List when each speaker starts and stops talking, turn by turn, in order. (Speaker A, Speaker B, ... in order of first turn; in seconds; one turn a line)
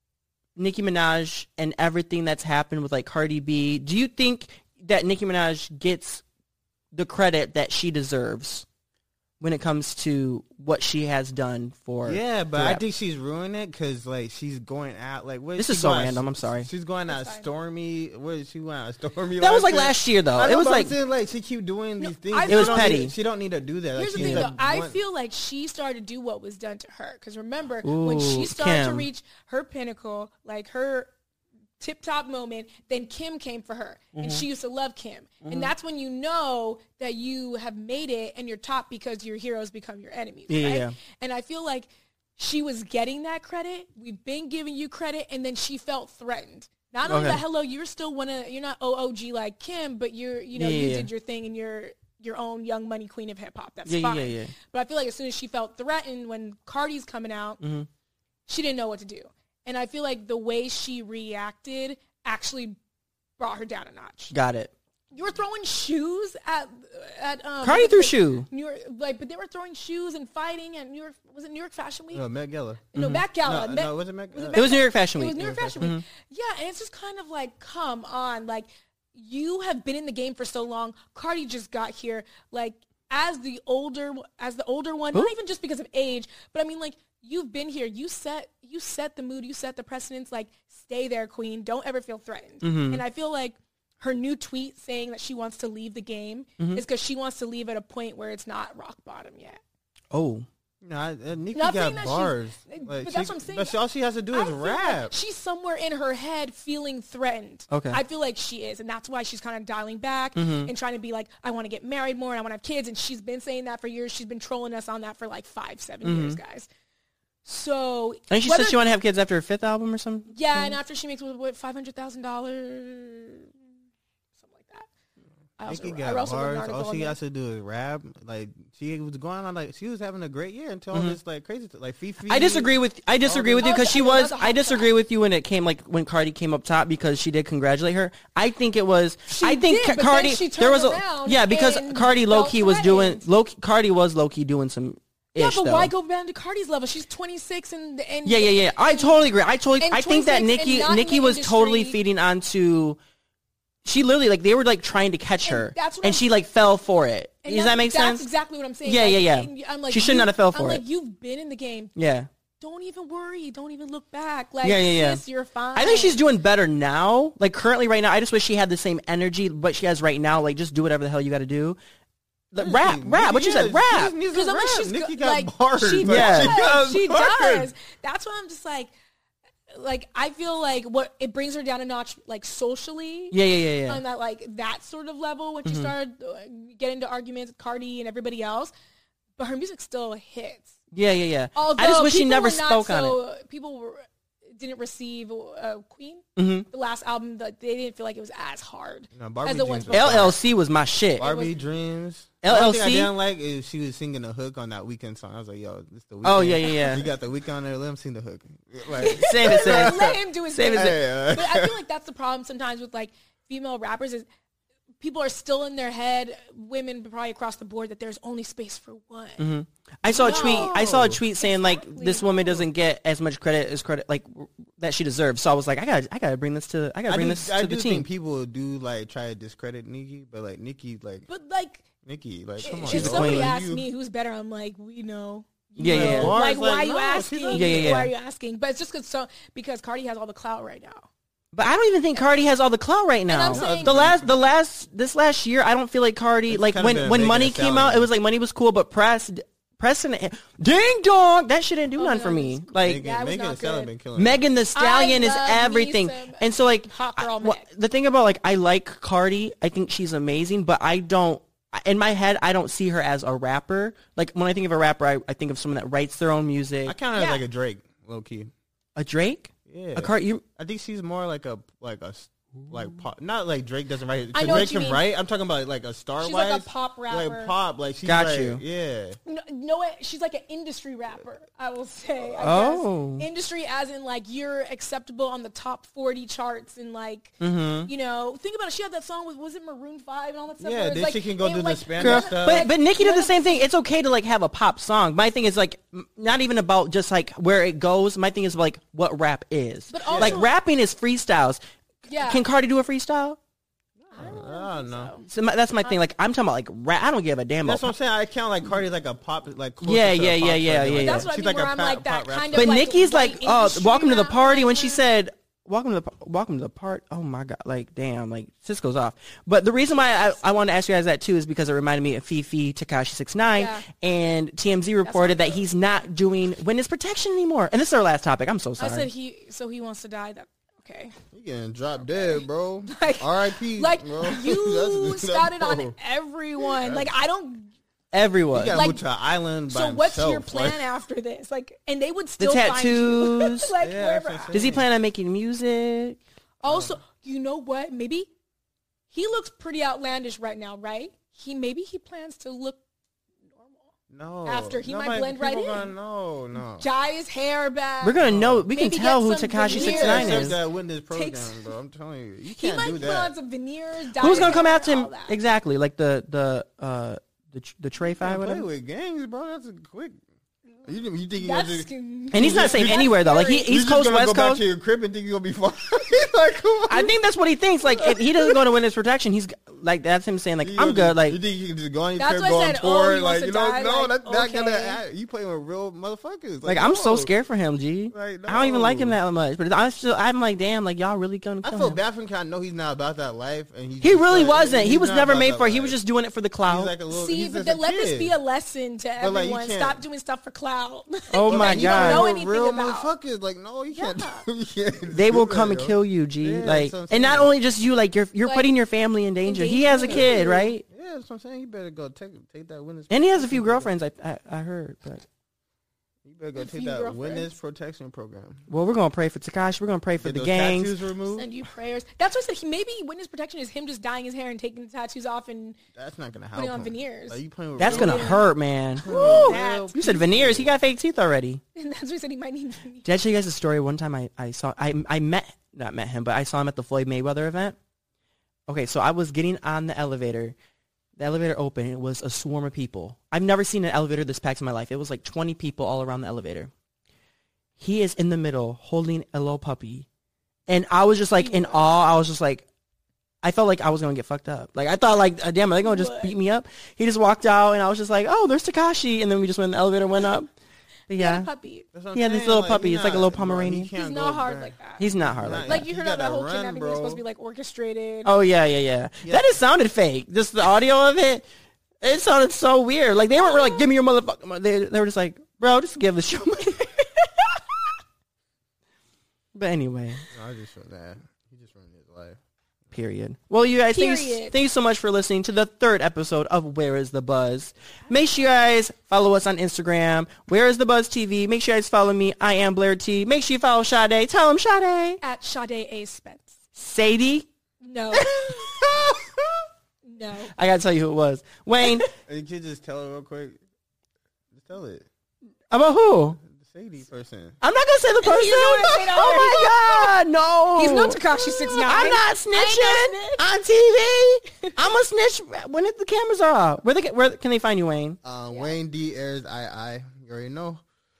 Speaker A: 0.6-6.2
Speaker A: 6.9-8.7
Speaker A: 9.4-12.8
Speaker B: 12.1-25.0
Speaker A: 15.6-16.7
Speaker C: 17.1-17.4
Speaker A: 19.4-20.9
Speaker C: 22.0-23.0
Speaker A: 22.5-23.1
Speaker C: 23.9-31.1
Speaker A: 24.1-24.5
Speaker A: 27.8-29.1
Speaker C: 31.8-57.6
Speaker A: 34.1-34.4
Speaker A: 35.4-35.7
Speaker A: 40.5-40.9
Speaker A: 47.1-47.4
Speaker A: 50.5-51.1
Speaker A: 53.9-54.5
Speaker A: 57.6-57.9
Speaker C: 58.5-62.8
Speaker C: 63.4-64.3
Speaker A: 64.3-64.7
Speaker C: 65.1-72.2
Speaker A: 67.6-68.5
Speaker B: 72.1-74.6
Speaker C: 72.9-99.6
Speaker A: 72.9-73.2
Speaker A: 74.5-76.0
Speaker B: 75.3-75.9
Speaker A: 92.6-93.0
Speaker A: 100.1-100.5
Speaker B: 100.8-105.1
Speaker C: 101.5-103.8
Speaker C: 104.3-116.7
Speaker A: 107.7-108.0
Speaker A: 110.3-110.7
Speaker A: 116.0-116.4
Speaker C: 117.4-118.8
Speaker A: 118.3-120.8
Speaker C: 120.3-123.5
Speaker C: 124.4-124.9
Speaker C: 125.6-127.2
Speaker B: 125.7-132.7
Speaker A: 132.3-145.9
Speaker B: 133.2-133.8
Speaker C: 133.6-134.9
Speaker C: 139.3-143.2
Speaker C: 145.3-149.2
Speaker A: 148.2-153.0
Speaker C: 149.8-152.0
Speaker A: 153.8-158.2
Speaker C: 155.4-156.3
Speaker C: 157.4-161.9
Speaker A: 158.8-160.8
Speaker A: 161.9-162.3
Speaker C: 162.6-166.2
Speaker A: 164.6-165.2
Speaker A: 165.8-171.8
Speaker A: 172.5-174.1
Speaker B: 172.6-177.7
Speaker C: 174.3-178.9
Speaker A: 176.1-176.7
Speaker C: 179.7-188.7
Speaker A: 183.3-184.0
Speaker A: 185.7-185.9
Speaker C: 189.4-190.8
Speaker A: 190.9-193.2
Speaker C: 191.5-200.3
Speaker A: 196.4-196.7
Speaker B: 199.1-200.4
Speaker A: 199.9-201.3
Speaker C: 201.2-201.5
Speaker B: 201.2-210.2
Speaker A: 202.4-203.1
Speaker A: 206.2-207.0
Speaker C: 206.6-207.0
Speaker C: 208.9-214.2
Speaker A: 209.1-211.0
Speaker B: 210.7-211.7
Speaker C: 215.0-219.5
Speaker A: 219.4-228.1
Speaker C: 220.1-222.7
Speaker B: 220.2-221.2
Speaker B: 227.1-231.2
Speaker C: 231.3-231.9
Speaker B: 232.0-233.8
Speaker C: 232.6-241.1
Speaker A: 232.8-233.5
Speaker A: 235.8-236.3
Speaker B: 235.8-238.0
Speaker A: 237.5-238.1
Speaker A: 241.5-253.0
Speaker C: 243.3-244.0
Speaker B: 243.5-244.3
Speaker B: 246.5-248.1
Speaker C: 251.9-253.9
Speaker B: 252.8-254.4
Speaker A: 254.2-266.9
Speaker C: 254.7-257.6
Speaker B: 266.9-268.5
Speaker C: 267.1-267.4
Speaker A: 268.9-270.4
Speaker B: 269.6-279.2
Speaker C: 274.3-275.0
Speaker C: 276.2-277.5
Speaker A: 278.0-278.6
Speaker C: 279.2-293.6
Speaker A: 282.4-283.2
Speaker A: 287.4-287.9
Speaker B: 290.6-292.7
Speaker A: 292.0-301.6
Speaker C: 299.9-300.5
Speaker B: 300.1-300.5
Speaker C: 302.1-302.4
Speaker A: 302.2-303.4
Speaker B: 304.0-305.1
Speaker C: 304.1-305.3
Speaker A: 305.2-307.9
Speaker B: 307.6-312.8
Speaker A: 309.8-311.3
Speaker C: 311.0-315.0
Speaker A: 312.5-329.1
Speaker C: 323.6-323.8
Speaker C: 325.0-325.6
Speaker C: 328.8-331.1
Speaker B: 331.3-335.9
Speaker C: 332.1-337.7
Speaker B: 336.6-337.1
Speaker A: 338.1-338.8
Speaker B: 338.5-340.9
Speaker C: 338.6-339.0
Speaker C: 339.7-344.6
Speaker A: 342.4-343.7
Speaker B: 343.8-344.9
Speaker A: 344.5-346.2
Speaker C: 346.6-348.3
Speaker B: 346.6-346.9
Speaker C: 349.1-352.8
Speaker C: 353.5-353.9
Speaker B: 354.1-356.9
Speaker C: 354.4-355.9
Speaker C: 356.8-360.6
Speaker A: 358.0-360.6
Speaker B: 358.2-358.7
Speaker B: 359.7-363.3
Speaker C: 361.1-361.7
Speaker C: 362.5-365.3
Speaker A: 364.2-368.6
Speaker B: 368.2-370.2
Speaker B: 370.8-373.1
Speaker C: 371.4-373.7
Speaker A: 372.3-374.6
Speaker B: 373.6-377.1
Speaker A: 376.9-381.4
Speaker B: 377.9-378.5
Speaker B: 380.6-387.3
Speaker C: 382.2-385.0
Speaker A: 386.6-392.0
Speaker B: 388.1-389.2
Speaker B: 391.6-396.0
Speaker A: 394.0-396.9
Speaker B: 396.6-398.3
Speaker C: 397.1-403.1
Speaker B: 399.2-400.0
Speaker A: 401.3-402.2
Speaker B: 401.4-407.5
Speaker C: 403.9-404.4
Speaker A: 405.1-410.8
Speaker C: 408.4-408.7
Speaker C: 409.4-410.7
Speaker B: 410.0-413.9
Speaker A: 413.1-415.2
Speaker B: 416.2-418.7
Speaker C: 416.5-417.5
Speaker A: 418.7-420.9
Speaker B: 420.2-421.5
Speaker C: 421.3-425.8
Speaker B: 425.9-430.7
Speaker C: 426.5-430.2
Speaker A: 427.8-431.6
Speaker C: 431.7-433.1
Speaker A: 433.0-437.8
Speaker A: 438.7-440.5
Speaker A: 441.2-446.7
Speaker A: 447.8-450.1
Speaker A: 450.7-452.6
Speaker C: 451.4-452.0
Speaker A: 453.4-460.5
Speaker C: 455.8-456.3
Speaker A: 461.1-461.5
Speaker C: 461.1-461.9
Speaker B: 461.9-467.2
Speaker A: 462.1-463.9
Speaker C: 463.9-465.1
Speaker A: 465.0-465.8
Speaker C: 465.6-468.3
Speaker A: 468.2-471.4
Speaker B: 469.2-469.5
Speaker A: 472.0-477.5
Speaker C: 473.4-473.8
Speaker A: 479.5-480.2
Speaker B: 480.3-482.4
Speaker A: 482.9-495.2
Speaker C: 483.9-484.5
Speaker C: 495.2-496.6
Speaker A: 496.7-497.5
Speaker C: 497.8-498.7
Speaker A: 498.2-498.9
Speaker B: 498.7-499.6
Speaker C: 500.0-500.5
Speaker A: 500.6-502.1
Speaker C: 501.8-502.1
Speaker B: 502.2-503.6
Speaker B: 504.5-505.1
Speaker A: 505.7-506.4
Speaker B: 506.4-507.6
Speaker A: 507.6-518.2
Speaker C: 508.2-510.1
Speaker C: 510.8-513.4
Speaker B: 518.2-520.8